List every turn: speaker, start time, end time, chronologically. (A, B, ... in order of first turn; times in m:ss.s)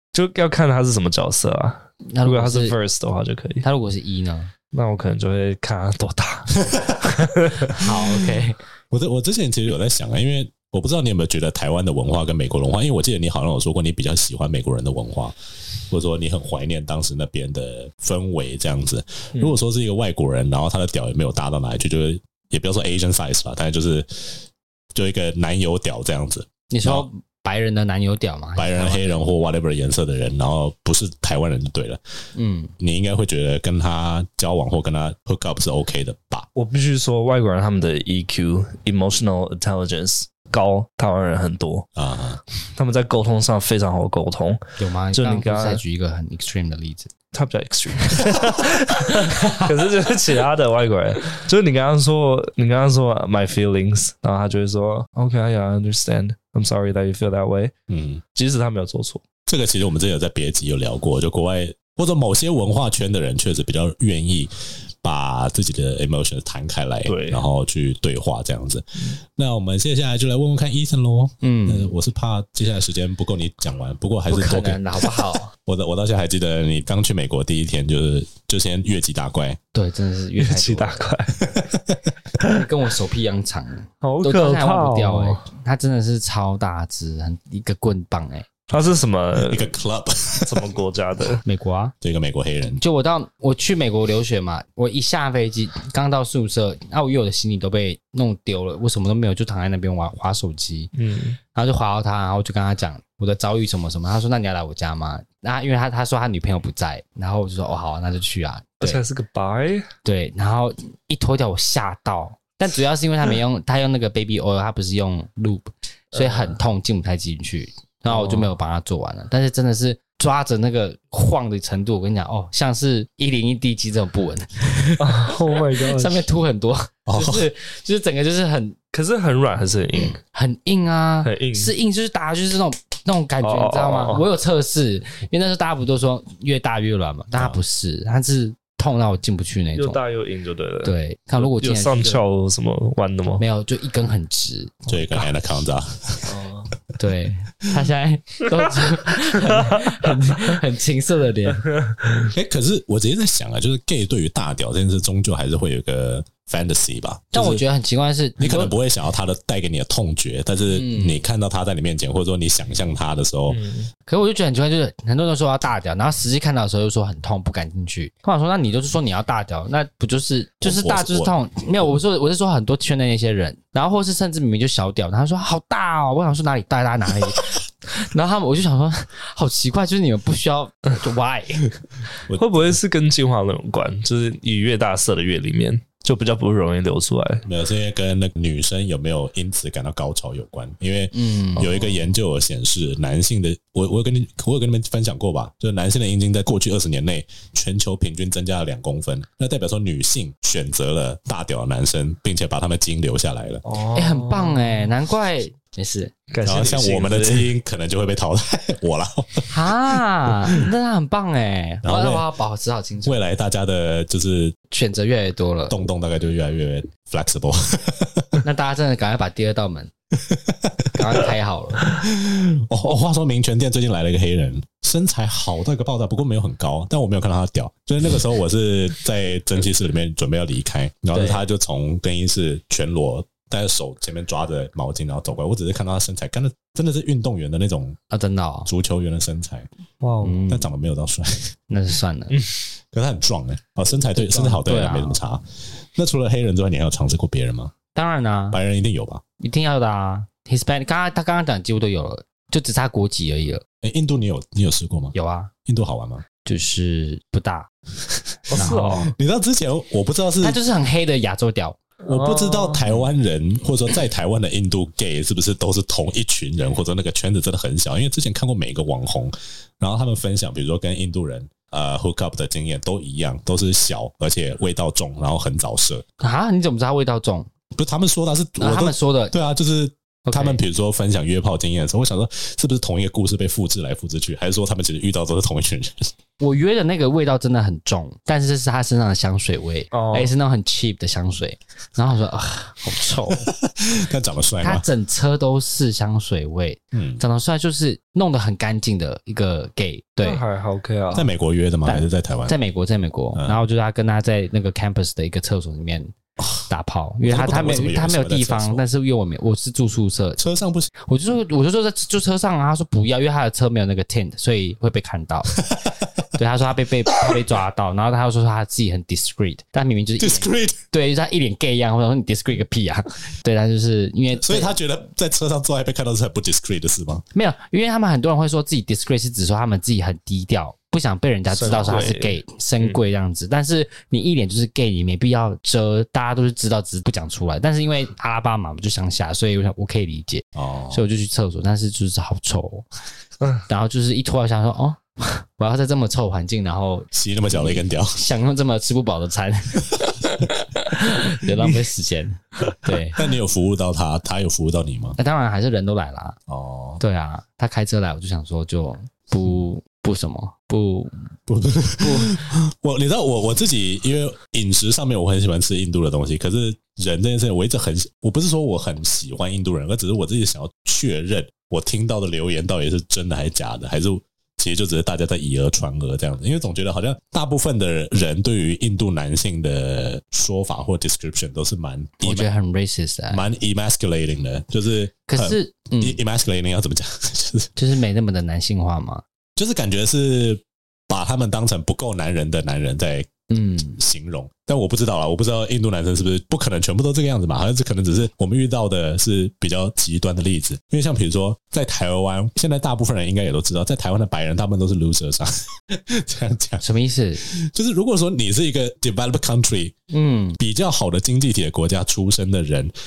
0:00.1-0:03.6 A
0:02.1-0:02.8 B
0:03.6-0:04.5 B
0:04.7-0:07.8 A
0:06.7-0:07.0 C
0:07.7-0:08.6 B
0:08.9-0:15.4 C
0:15.9-0:27.1 C
0:26.7-0:29.2 B
0:28.6-0:32.0 C
0:32.4-0:32.7 B
0:32.8-0:36.5 C
0:36.6-0:41.9 A
0:42.0-0:42.4 C
0:42.8-0:44.6 A
0:44.8-0:47.1 B
0:45.1-0:45.8 A
0:47.3-0:57.7 A
0:49.1-0:49.7 B
0:57.9-0:58.2 C
0:58.4-0:59.2 A
0:59.5-1:19.6 C
1:07.1-1:07.4 A
1:11.4-1:11.9 B
1:14.3-1:15.5 B
1:19.7-1:21.1 B
1:20.4-1:21.4 A
1:21.5-1:22.0 C
1:22.4-1:28.5 B
1:24.0-1:25.4 A
1:28.7-1:29.7 A
1:29.4-1:30.7 C
1:30.4-1:31.4 A
1:31.4-1:31.9 B
1:32.0-1:32.8 C
1:32.8-1:40.9 B
1:41.0-1:41.4 A
1:41.5-1:49.0 B
1:48.8-1:49.9 A
1:50.0-2:08.8 B
1:56.1-1:56.6 A
1:58.1-1:58.5 A
2:05.0-2:06.2 A
2:07.1-2:07.5 C
2:08.9-2:10.2 A
2:10.3-2:20.0 B
2:11.2-2:11.7 A
2:13.4-2:14.3 A
2:19.8-2:23.4 A
2:20.8-2:22.2 B
2:23.4-2:25.3 B
2:24.9-2:26.4 C
2:26.3-2:26.7 A
2:27.0-2:31.7 B
2:29.3-2:30.2 A
2:31.6-2:32.3 A
2:32.3-2:37.6 C
2:37.3-2:38.7 B
2:38.4-2:43.6 C
2:40.7-2:41.2 B
2:43.5-2:43.9 A
2:44.1-3:01.7 B
2:50.6-2:51.3 C
3:02.3-3:02.8 C
3:02.4-3:07.4 A
3:07.4-3:23.6 C
3:11.1-3:11.8 B
3:23.6-3:24.9 A
3:24.0-3:26.1 B
3:26.3-3:27.5 A
3:26.4-3:30.6 C
3:29.5-3:33.2 B
3:31.8-3:32.2 C
3:33.0-3:34.6 C
3:34.7-3:35.8 B
3:35.7-3:38.4 C
3:38.4-3:39.9 B
3:40.2-3:41.2 C
3:41.0-3:42.0 B
3:41.8-3:58.0 C
3:51.1-3:51.4 B
3:58.1-3:58.7 B
3:58.7-3:59.7 C
4:00.0-4:00.4 A
4:00.2-4:00.7 B
4:00.5-4:01.6 C
4:01.7-4:02.4 B
4:02.9-4:07.7 C
4:04.2-4:05.2 B
4:07.9-4:08.6 B
4:08.5-4:09.2 C
4:09.4-4:13.6 B
4:13.8-4:15.1 C
4:15.1-4:15.5 B
4:15.7-4:16.2 C
4:16.4-4:17.7 B
4:18.5-4:19.1 A
4:18.5-4:20.6 C
4:18.6-4:19.0 B
4:20.4-4:21.8 B
4:22.1-4:36.0 C
4:22.1-4:23.0 A
4:36.2-4:37.5 B
4:37.8-4:46.1 C
4:38.6-4:39.3 B
4:40.2-4:40.6 B
4:46.4-4:53.5 B
4:49.9-4:50.3 A
4:53.3-4:54.8 C
4:54.6-5:00.4 B
4:56.9-4:57.2 C
5:00.2-5:01.3 A
5:01.1-5:02.5 C
5:01.9-5:06.1 B
5:06.4-5:06.7 C
5:06.7-5:10.4 B
5:07.3-5:08.8 C
5:10.4-5:10.9 C
5:11.1-5:15.5 B
5:15.5-5:16.3 C
5:16.4-5:24.8 B
5:20.2-5:20.8 C
5:24.4-5:27.2 C
5:27.3-5:42.9 B
5:31.5-5:33.0 A
5:40.6-5:41.0 C
5:43.7-5:53.2 B
5:47.1-5:48.2 C
5:53.2-5:55.2 C
5:55.2-5:56.4 B
5:56.5-5:57.0 C
5:57.0-6:01.1 B
6:01.5-6:22.5 C
6:02.0-6:02.5 B
6:22.2-6:23.4 B
6:23.3-6:27.8 C
6:25.3-6:26.2 B
6:27.8-6:29.2 B
6:29.6-6:33.3 C
6:33.5-6:34.0 B
6:34.0-6:46.8 C
6:46.8-6:47.4 B
6:47.4-6:49.9 C
6:50.1-6:50.6 B
6:50.6-6:52.9 C